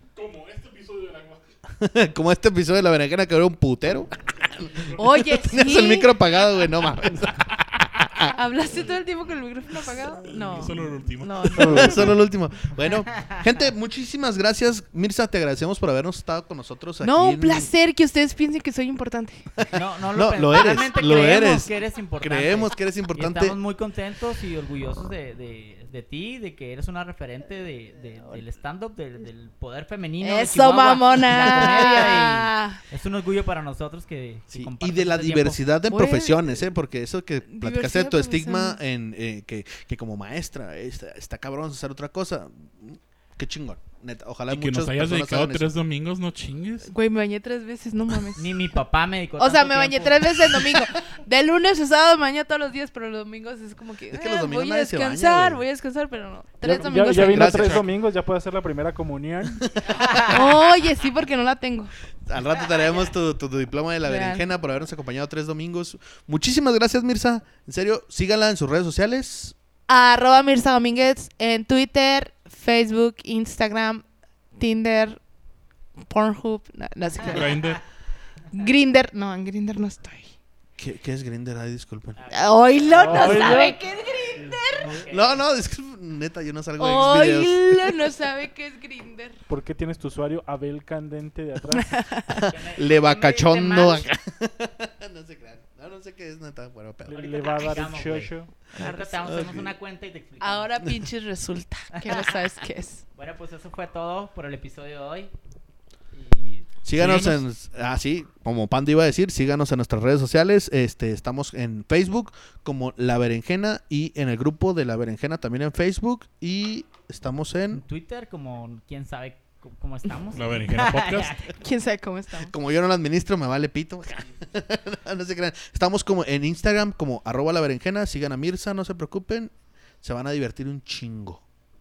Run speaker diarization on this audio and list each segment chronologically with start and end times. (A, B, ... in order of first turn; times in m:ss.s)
0:00.2-0:01.5 A
0:01.7-0:08.4 B
0:05.0-0:06.1 C
0:08.3-0:12.1 C
0:10.2-0:12.2 A
0:11.6-0:17.7 B
0:13.1-0:13.7 D
0:17.0-0:19.5 C
0:19.6-0:23.6 B
0:19.7-0:35.6 D
0:20.5-0:21.7 C
0:30.2-0:32.8 C
0:34.5-0:45.7 B
0:35.9-0:36.5 C
0:37.5-0:38.8 C
0:44.5-0:46.9 A
0:46.9-0:48.6 C
0:48.4-0:50.3 D
0:49.4-0:57.8 C
0:54.1-0:55.6 B
0:56.6-0:59.7 E
0:57.3-0:57.8 B
0:57.4-0:57.9 A
0:59.6-0:59.9 B
0:59.9-1:00.5 D
1:00.1-1:01.9 C
1:02.3-1:09.6 B
1:02.5-1:03.1 D
1:04.0-1:04.4 C
1:09.9-1:14.0 C
1:14.6-1:15.2 C
1:16.1-1:17.7 C
1:17.2-1:17.8 A
1:18.5-1:20.4 C
1:20.8-1:22.2 B
1:22.2-1:22.5 D
1:22.3-1:25.0 C
1:22.9-1:23.8 E
1:23.0-1:23.6 D
1:24.8-1:25.4 D
1:25.1-1:28.1 B
1:26.8-1:29.4 C
1:29.5-1:32.0 E
1:31.8-1:32.4 C
1:32.3-1:37.2 B
1:32.4-1:34.1 D
1:37.1-1:38.5 E
1:37.1-1:40.7 D
1:38.7-1:39.5 C
1:38.8-1:39.8 B
1:40.4-1:43.0 C
1:42.0-1:42.3 D
1:43.2-1:45.3 D
1:46.1-1:46.7 D
1:46.8-1:57.8 B
1:47.0-1:47.4 A
1:57.7-2:01.5 D
2:00.3-2:01.4 A
2:01.5-2:02.5 C
2:02.4-2:11.4 B